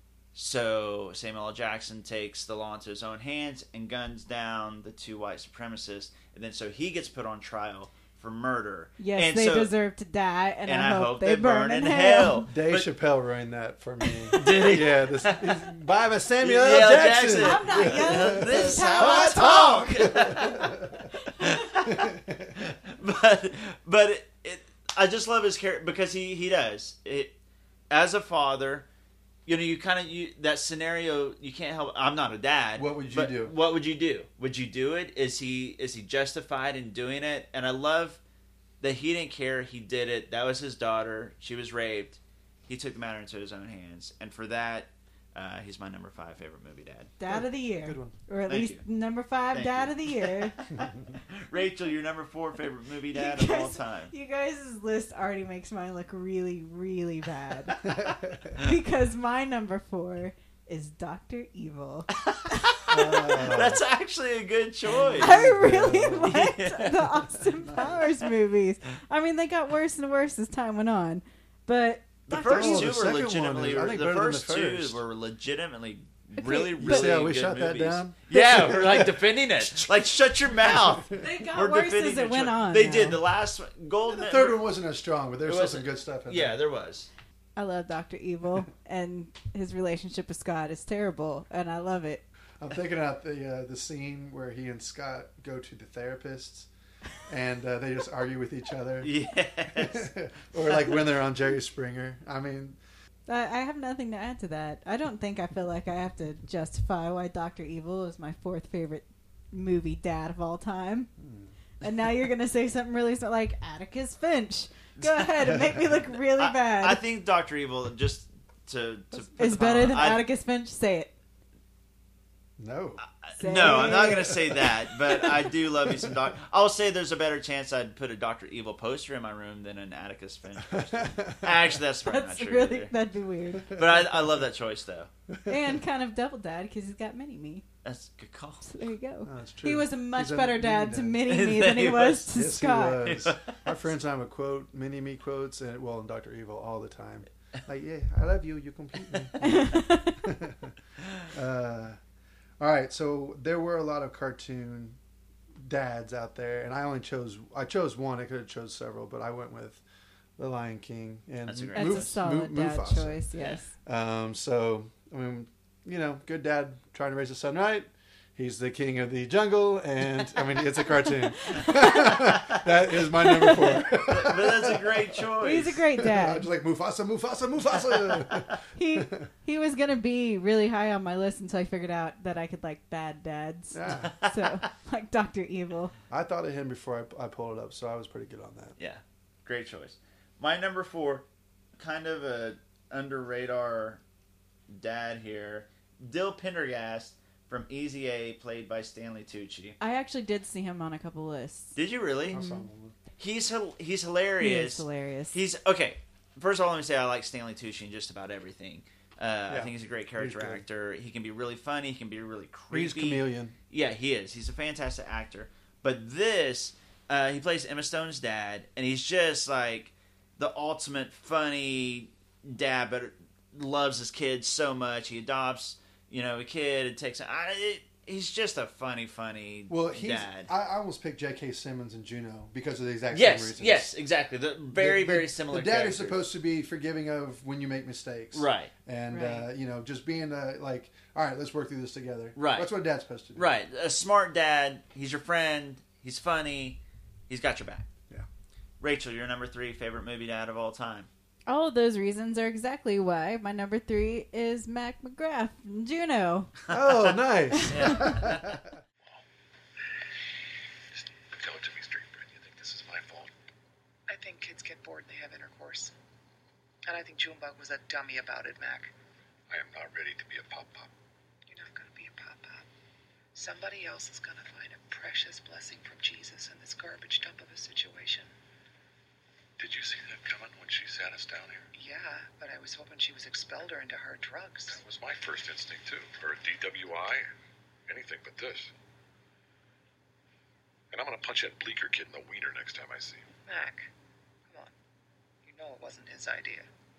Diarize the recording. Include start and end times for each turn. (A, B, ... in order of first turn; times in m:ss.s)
0:00.3-0:09.7 A
0:09.0-0:12.5 B
0:10.6-0:12.9 A
0:12.4-0:21.1 C
0:14.3-0:15.6 A
0:16.4-0:22.0 A
0:17.3-0:19.7 B
0:21.8-0:22.6 C
0:22.6-0:27.3 A
0:27.9-0:28.8 A
0:29.4-0:38.2 A
0:32.8-0:33.5 C
0:38.8-0:47.1 A
0:47.2-0:50.6 B
0:47.3-0:48.1 C
0:48.5-0:48.8 A
0:49.5-0:54.1 A
0:53.1-0:57.9 B
0:57.8-0:58.5 C
0:58.6-1:03.4 B
1:02.1-1:05.4 A
1:02.9-1:03.8 C
1:05.0-1:06.4 C
1:05.2-1:12.9 B
1:06.2-1:07.2 A
1:07.6-1:08.0 C
1:12.3-1:24.6 A
1:12.3-1:15.0 C
1:16.4-1:17.1 B
1:16.8-1:19.9 C
1:20.6-1:21.2 C
1:21.1-1:23.2 B
1:24.1-1:26.6 C
1:25.4-1:27.1 A
1:27.6-1:32.2 B
1:32.6-1:36.7 C
1:37.3-1:39.1 C
1:39.0-1:41.0 A
1:39.7-1:42.8 C
1:43.3-1:51.1 B
1:51.2-1:51.5 C
1:51.8-1:57.0 B
1:55.0-1:55.6 A
1:55.5-1:55.8 C
1:56.3-2:00.2 A
1:59.3-2:01.1 B
2:02.6-2:03.0 C
2:03.2-2:12.9 A
2:03.4-2:04.4 B
2:03.5-2:04.6 C
2:10.7-2:11.6 C
2:12.0-2:13.8 B
2:13.7-2:15.1 A
2:13.8-2:14.2 C
2:15.3-2:15.7 C
2:15.5-2:17.6 B
2:17.8-2:18.6 A
2:18.6-2:23.1 B
2:19.2-2:21.2 C
2:21.3-2:22.3 A
2:22.3-2:30.8 C
2:23.0-2:23.6 A
2:29.4-2:30.2 B
2:31.3-2:32.0 C
2:32.6-2:35.0 C
2:35.6-2:39.8 C
2:40.4-2:43.2 C
2:41.4-2:42.2 A
2:41.7-2:43.7 B
2:43.4-2:43.6 A
2:43.8-2:55.3 C
2:51.4-2:52.2 B
2:53.2-2:53.8 B
2:53.9-2:55.8 A
2:55.4-2:56.4 B
2:56.0-2:59.3 C
2:58.7-3:05.9 B
3:03.7-3:04.2 C
3:03.9-3:04.6 A
3:06.1-3:08.8 C
3:08.8-3:11.2 A
3:11.8-3:14.0 A
3:14.7-3:19.8 A
3:19.8-3:21.8 B
3:21.7-3:22.4 A
3:22.3-3:23.0 C
3:22.3-3:22.6 B
3:23.2-3:50.5 A
3:24.4-3:25.4 B
3:29.5-3:30.6 C
3:32.7-3:33.5 C
3:49.7-3:53.9 C
3:53.1-3:56.2 A
3:54.7-4:03.5 C
3:58.3-3:58.7 A
3:59.1-3:59.5 B
4:02.4-4:02.7 A
4:03.3-4:07.9 A
4:08.8-4:11.1 A
4:11.5-4:16.5 B
4:16.7-4:17.1 A
4:16.7-4:18.7 C
4:17.5-4:17.9 B
4:17.7-4:18.5 A
4:21.0-4:23.3 D
4:24.1-4:25.9 E
4:26.8-4:28.9 E
4:29.5-4:30.9 D
4:31.5-4:32.6 E
4:33.3-4:38.3 E
4:39.6-4:41.7 D
4:41.7-4:44.8 E
4:44.7-4:47.3 D
4:47.9-4:48.7 D
4:50.9-4:53.3 D
4:53.5-4:53.9 E
4:55.4-4:56.7 E